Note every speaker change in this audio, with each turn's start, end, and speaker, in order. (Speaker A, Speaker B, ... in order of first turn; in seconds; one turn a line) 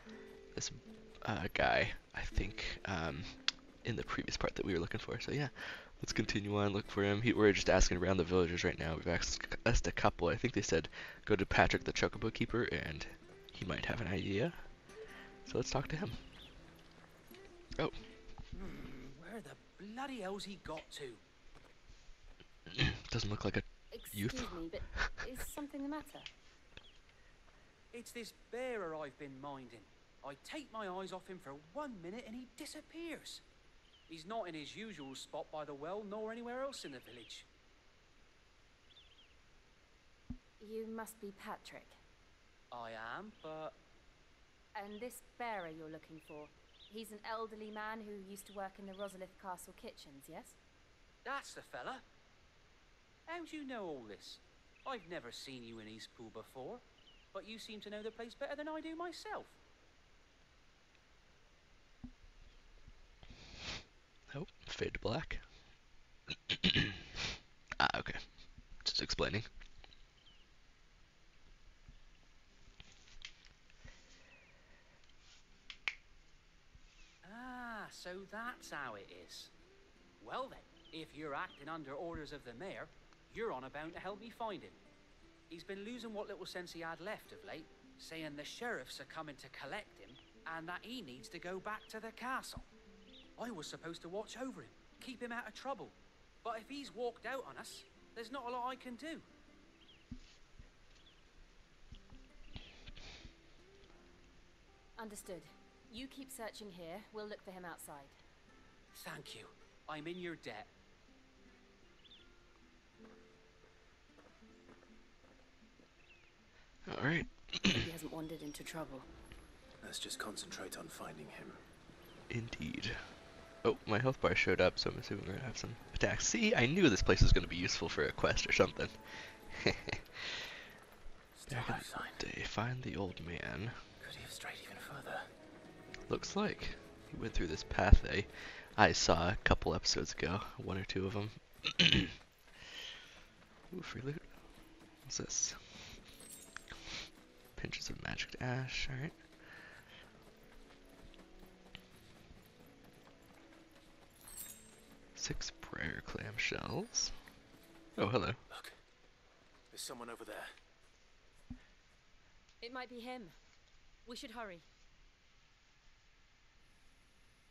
Speaker A: 0.5-14.6
Speaker A: 15.4-16.2
Speaker B: 18.5-21.2
Speaker A: 22.7-25.2
Speaker C: 23.9-26.3
Speaker B: 27.9-33.4
Speaker B: 34.1-37.5
Speaker C: 40.6-42.0
Speaker B: 42.7-43.8
Speaker C: 44.7-50.6
Speaker B: 51.2-52.0
Speaker B: 53.3-59.6
Speaker A: 64.3-65.4
Speaker A: 66.5-67.0
Speaker A: 67.8-68.2
Speaker A: 68.8-69.5
Speaker B: 77.2-79.5
Speaker B: 80.2-84.8
Speaker B: 85.5-92.7
Speaker B: 93.4-99.2
Speaker C: 105.0-108.2
Speaker B: 108.9-110.7
Speaker A: 116.9-117.8
Speaker C: 117.7-119.1
Speaker D: 119.8-121.6
Speaker A: 122.3-123.0
Speaker A: 123.6-130.4
Speaker D: 131.3-132.2
Speaker A: 131.5-133.7
Speaker D: 134.0-135.3
Speaker A: 136.1-142.1
Speaker A: 143.7-144.3
Speaker A: 145.0-146.0
Speaker A: 147.6-149.2
Speaker A: 155.2-157.1
Speaker A: 158.0-158.4
Speaker D: 158.5-158.8
Speaker D: 159.7-160.5
Speaker C: 162.6-163.3
Speaker C: 164.0-164.7